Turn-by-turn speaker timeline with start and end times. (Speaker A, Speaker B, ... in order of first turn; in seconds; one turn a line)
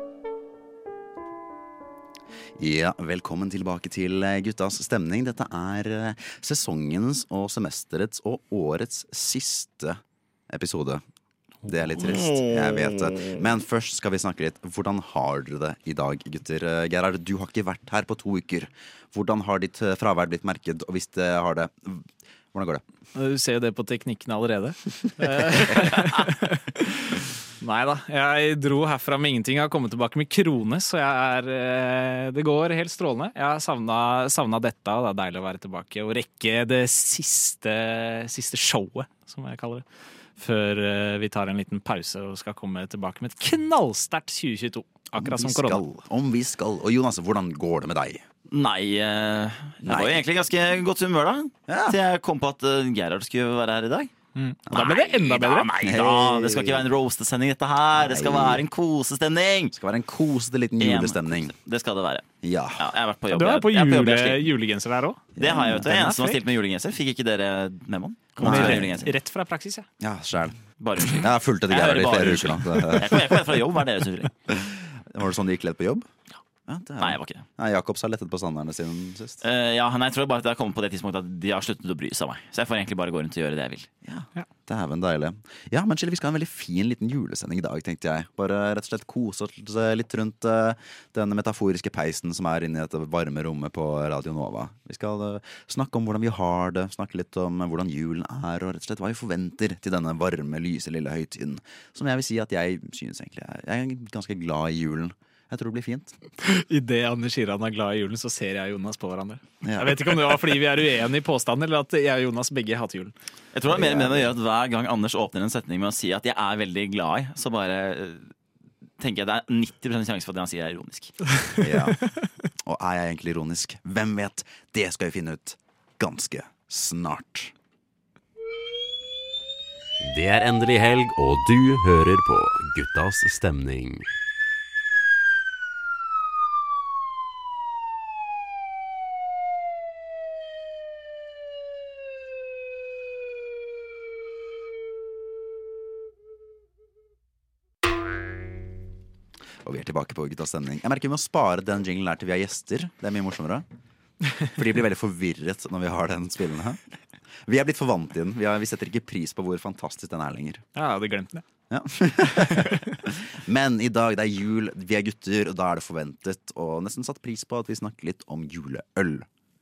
Speaker A: 2.6-11.0
Speaker A: 11.7-22.8
Speaker B: 23.1-39.8
Speaker B: 40.4-45.8
Speaker A: 45.1-48.2
Speaker C: 48.5-54.1
Speaker A: 49.8-50.2
Speaker A: 51.7-52.0
Speaker B: 54.4-55.7
Speaker C: 54.7-59.8
Speaker A: 55.8-56.9
Speaker A: 58.0-58.6
Speaker A: 59.7-61.5
Speaker C: 60.8-64.5
Speaker A: 62.4-62.9
Speaker B: 63.3-66.4
Speaker A: 65.4-65.9
Speaker C: 65.4-69.1
Speaker B: 68.4-69.9
Speaker A: 68.4-69.0
Speaker A: 70.0-73.8
Speaker C: 70.8-74.3
Speaker A: 74.5-76.1
Speaker A: 76.7-79.4
Speaker C: 77.0-77.5
Speaker C: 79.4-83.9
Speaker A: 84.0-106.2
Speaker B: 106.4-113.1
Speaker A: 109.6-110.4
Speaker C: 113.5-118.3
Speaker A: 113.7-114.3
Speaker C: 119.0-121.3
Speaker A: 121.6-122.1
Speaker B: 121.8-122.1
Speaker A: 122.6-127.5
Speaker D: 130.1-133.2
Speaker A: 149.6-153.7
Speaker A: 154.5-156.8
Speaker A: 157.4-160.6
Speaker B: 160.8-161.4
Speaker A: 161.7-169.3